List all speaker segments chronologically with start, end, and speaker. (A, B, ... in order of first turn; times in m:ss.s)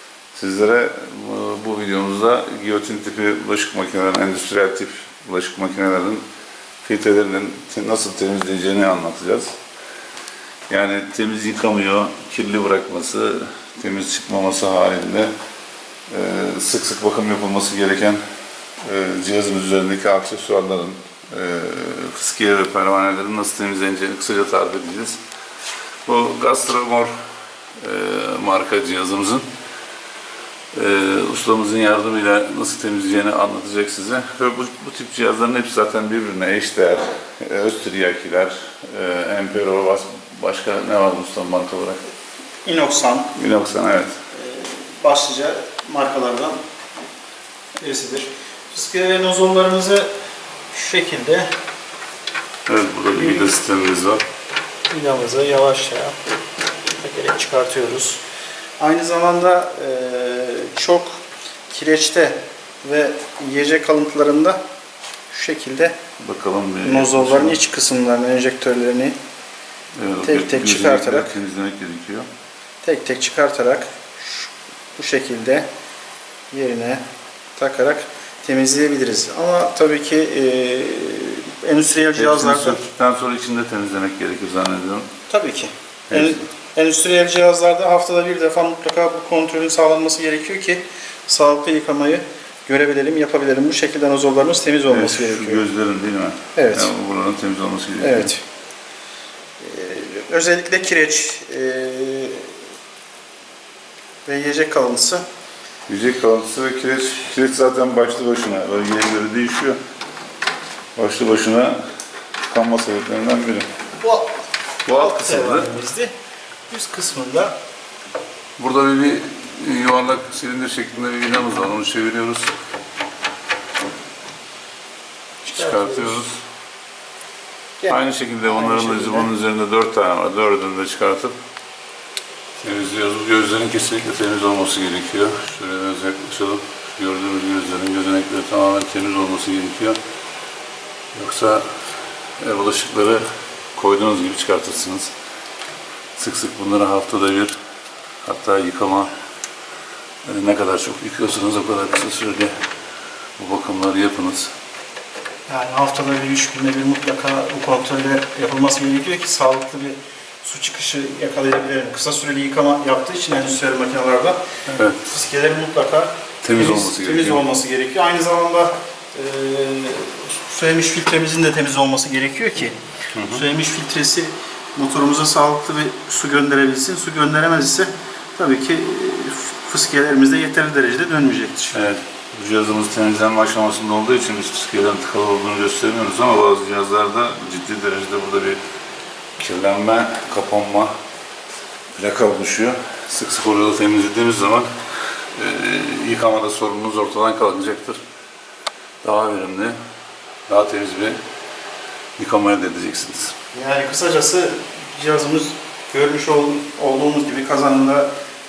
0:00.3-0:06.2 A
0:06.8-0:09.5 A
0:10.7-0:15.3 A
0:16.1-0:18.2 A
0:18.8-0:25.2 A
0:26.1-0:27.1 A
0:27.8-0:29.4 A
0:30.7-0:42.0 A
0:42.6-0:43.3 B
0:43.4-0:44.2 A
0:44.3-0:46.6 B
0:47.8-0:50.1 B
0:50.7-0:51.5 B
0:52.7-0:54.2 A
0:53.2-0:53.6 B
0:54.9-0:56.2 B
0:56.9-0:58.2 B
0:58.8-1:01.2 B
1:01.7-1:04.6 B
1:05.3-1:06.0 B
1:06.2-1:07.6 A
1:06.8-1:09.2 B
1:10.0-1:12.3 A
1:10.2-1:11.4 B
1:12.8-1:15.7 B
1:16.5-1:17.0 B
1:17.6-1:22.8 B
1:22.2-1:25.1 A
1:25.3-1:35.6 B
1:26.1-1:26.4 A
1:34.9-1:38.3 A
1:36.6-1:36.9 B
1:38.0-1:38.4 B
1:39.6-1:42.6 B
1:44.2-1:45.2 B
1:45.9-1:49.8 A
1:51.0-1:51.8 A
1:52.5-1:53.7 A
1:54.0-1:54.4 B
1:54.9-1:55.7 A
1:54.9-1:56.1 B
1:56.7-1:57.6 B
1:58.6-2:02.5 A
2:05.4-2:06.2 B
2:05.6-2:06.4 A
2:07.8-2:09.3 B
2:07.9-2:11.3 A
2:12.6-2:20.0 A
2:21.1-2:21.7 A
2:22.4-2:23.2 A
2:23.8-2:25.1 A
2:26.2-2:27.6 A
2:28.2-2:29.1 A
2:30.2-2:32.5 A
2:33.4-2:34.5 A
2:35.5-2:44.4 B
2:44.7-2:45.0 A
2:45.0-3:01.8 B
2:46.4-2:47.5 A
2:53.2-2:53.4 A
3:01.7-3:08.6 A
3:09.4-3:10.9 A
3:12.0-3:14.7 A
3:15.4-3:18.0 A
3:19.0-3:19.8 A
3:20.5-3:21.2 A
3:22.2-3:23.4 A
3:23.5-3:28.1 B